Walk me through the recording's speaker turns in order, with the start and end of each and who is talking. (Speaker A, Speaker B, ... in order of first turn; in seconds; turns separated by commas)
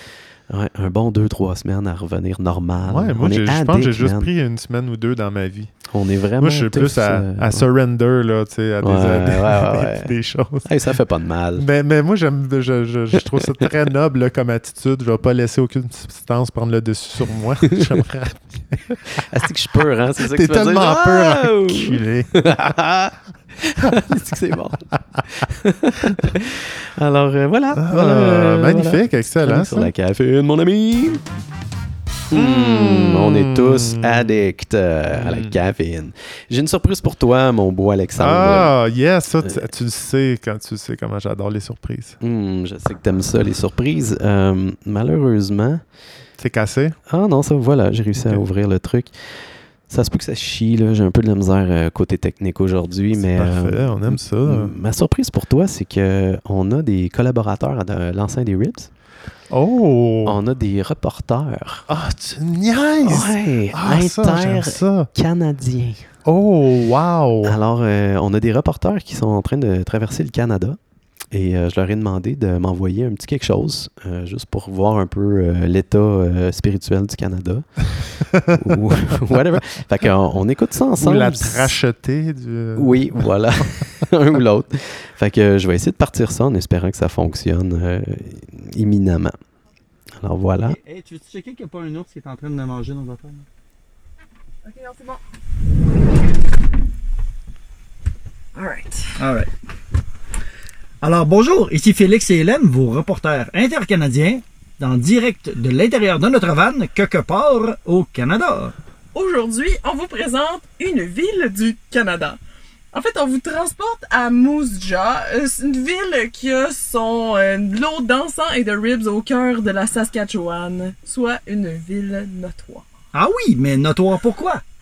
Speaker A: 0.5-4.3, Speaker B: 2.8-5.8, Speaker A: 5.9-7.7, Speaker B: 6.4-10.7, Speaker A: 8.8-11.7, Speaker B: 11.6-19.3, Speaker A: 19.1-31.2, Speaker B: 20.2-22.7, Speaker B: 27.7-29.9, Speaker A: 32.3-38.7, Speaker B: 32.3-34.5, Speaker B: 35.1-35.5, Speaker B: 38.2-42.2, Speaker A: 42.2-45.8, Speaker B: 46.4-47.0, Speaker A: 47.1-49.1, Speaker B: 48.1-48.4, Speaker A: 49.9-58.9, Speaker B: 53.1-54.7, Speaker B: 59.5-60.4, Speaker A: 60.2-61.9, Speaker B: 61.9-65.1, Speaker A: 63.0-66.1, Speaker B: 66.2-67.6, Speaker A: 67.4-70.8, Speaker A: 71.3-77.9, Speaker B: 78.3-78.8, Speaker A: 78.4-81.7, Speaker B: 81.0-84.0, Speaker A: 82.8-89.4, Speaker A: 90.2-90.8, Speaker C: 90.7-93.5, Speaker D: 94.6-95.2, Speaker D: 98.5-99.2, Speaker C: 99.2-99.5, Speaker C: 101.0-108.7, Speaker D: 109.1-112.4, Speaker D: 112.9-122.8, Speaker C: 123.1-124.6